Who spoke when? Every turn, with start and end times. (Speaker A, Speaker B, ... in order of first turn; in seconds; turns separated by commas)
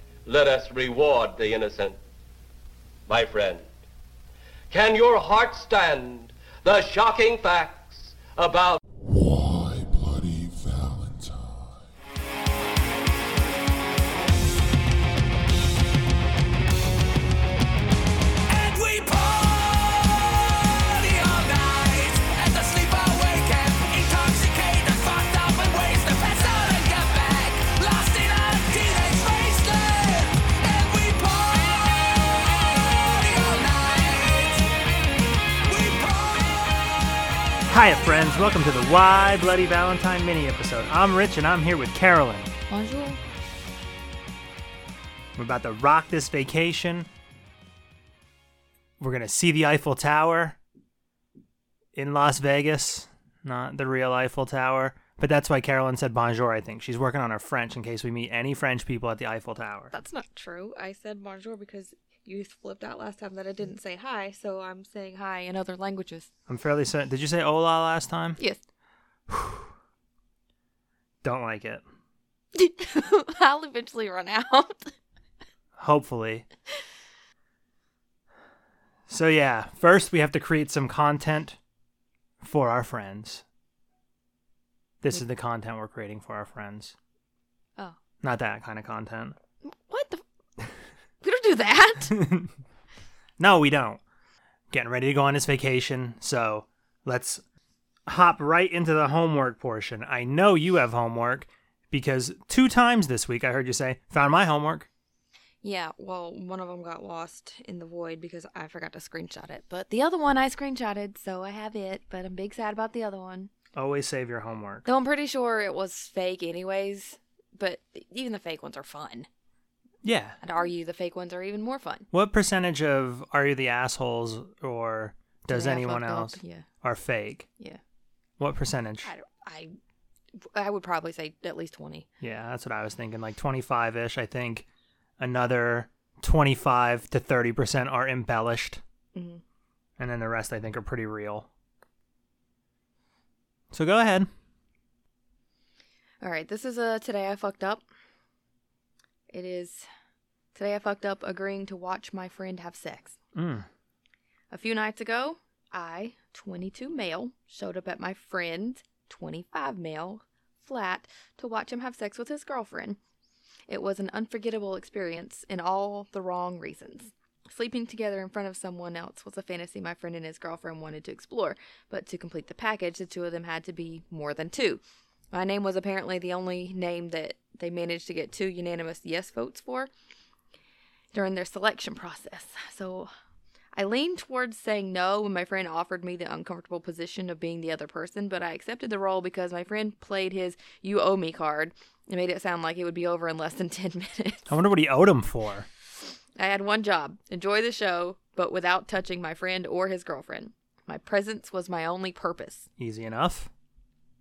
Speaker A: 0.2-2.0, Speaker A: 3.1-3.7, Speaker A: 4.7-8.8, Speaker B: 9.0-11.8, Speaker C: 18.5-34.7, Speaker C: 35.6-37.2, Speaker D: 37.7-42.5, Speaker E: 42.7-43.2, Speaker D: 45.4-47.1, Speaker D: 49.0-50.6, Speaker D: 51.9-59.9, Speaker E: 59.9-66.3, Speaker D: 66.5-68.4, Speaker D: 69.3-69.7, Speaker D: 71.2-71.8, Speaker E: 72.5-74.9, Speaker D: 75.8-76.4, Speaker D: 79.1-81.6, Speaker D: 82.4-83.4, Speaker D: 85.0-86.9, Speaker D: 88.2-89.4, Speaker E: 89.6-90.2, Speaker E: 91.2-92.1, Speaker D: 92.1-92.5, Speaker D: 93.4-94.0, Speaker D: 94.7-97.4, Speaker D: 98.0-104.9, Speaker E: 105.6-113.5, Speaker D: 113.7-114.9, Speaker E: 114.8-119.3, Speaker D: 120.0-120.4, Speaker E: 120.4-122.1, Speaker D: 122.1-127.5, Speaker E: 125.5-126.6, Speaker D: 128.4-129.1, Speaker E: 129.0-129.7, Speaker E: 130.5-132.1, Speaker D: 132.2-134.7, Speaker D: 135.2-138.8, Speaker E: 139.1-139.4, Speaker D: 140.0-141.5, Speaker D: 143.7-144.3, Speaker E: 146.2-147.8, Speaker E: 149.3-149.8, Speaker E: 150.5-153.1, Speaker D: 153.3-153.7, Speaker E: 154.5-163.0, Speaker E: 163.7-179.9, Speaker E: 181.1-183.1, Speaker E: 183.7-194.5, Speaker D: 194.5-195.7, Speaker E: 196.4-202.7, Speaker D: 202.8-203.5